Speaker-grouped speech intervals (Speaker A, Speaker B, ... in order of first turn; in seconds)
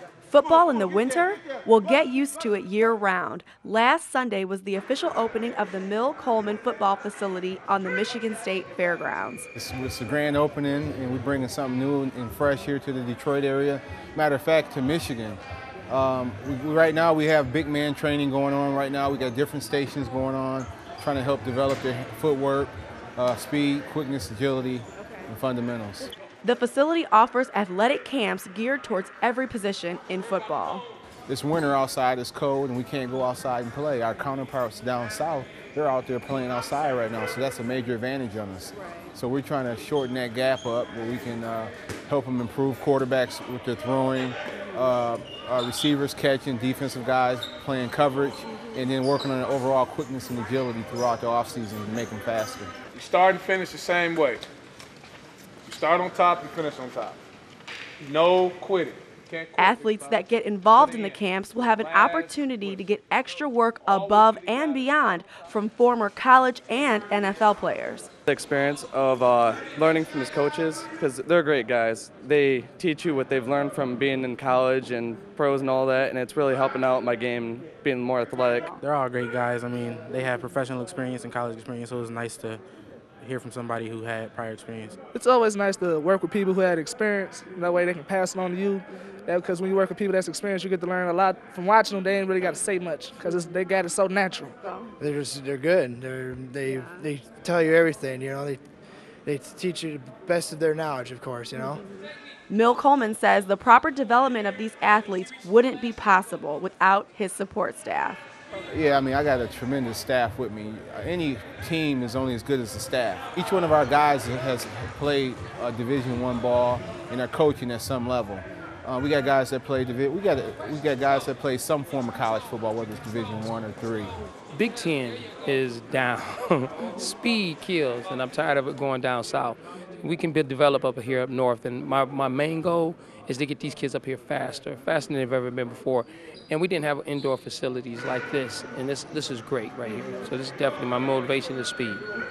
Speaker A: 0.3-9.5, 26.4-30.8, 59.6-68.1, 102.5-108.2
Speaker B: 9.5-26.1, 31.3-52.7, 108.7-124.1
Speaker C: 52.9-54.4, 55.6-57.2, 58.0-62.7, 63.9-64.8
Speaker D: 68.3-78.7
Speaker E: 78.8-82.6, 83.2-85.0
Speaker F: 85.1-94.6
Speaker G: 95.0-98.6, 99.2-101.8
Speaker H: 124.5-142.0